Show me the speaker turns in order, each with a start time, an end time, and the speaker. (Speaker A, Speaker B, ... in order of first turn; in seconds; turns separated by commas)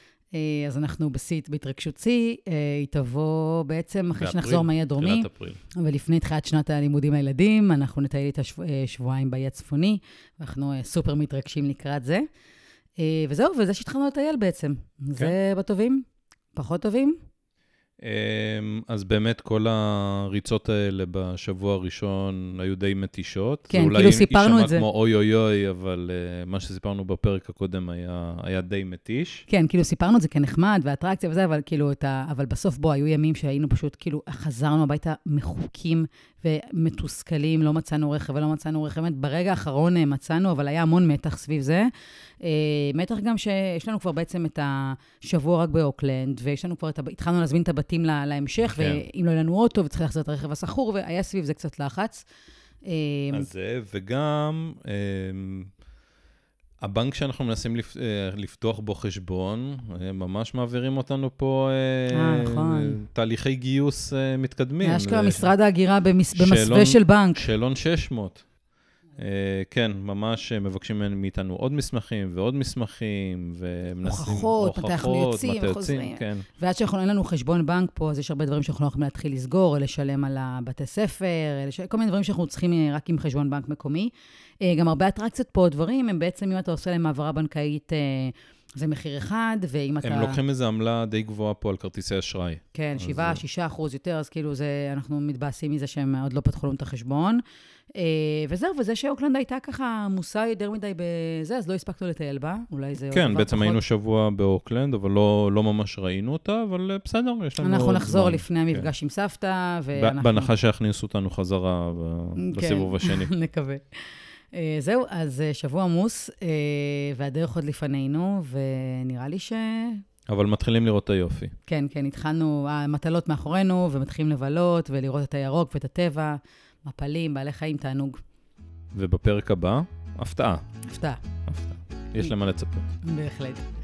Speaker A: 0.3-12.3, Speaker B: 4.2-5.6, Speaker A: 13.0-17.2, Speaker B: 18.0-29.5, Speaker A: 23.7-24.9, Speaker A: 29.5-41.9, Speaker A: 42.4-52.3, Speaker B: 48.8-49.0, Speaker A: 52.9-53.5, Speaker B: 53.3-55.7, Speaker B: 56.8-65.5, Speaker A: 62.1-63.0, Speaker A: 64.8-67.5, Speaker B: 66.3-68.4, Speaker B: 69.2-76.5, Speaker A: 74.0-84.1, Speaker A: 84.6-90.4, Speaker B: 90.0-93.4, Speaker A: 92.7-97.4, Speaker A: 98.0-103.8, Speaker B: 103.1-108.9, Speaker A: 107.6-110.5, Speaker B: 110.0-113.3, Speaker A: 112.4-114.0, Speaker A: 114.5-120.0, Speaker B: 120.3-121.5, Speaker A: 121.7-128.2, Speaker B: 128.9-130.6, Speaker A: 130.9-131.2, Speaker B: 131.5-132.9, Speaker A: 133.0-133.7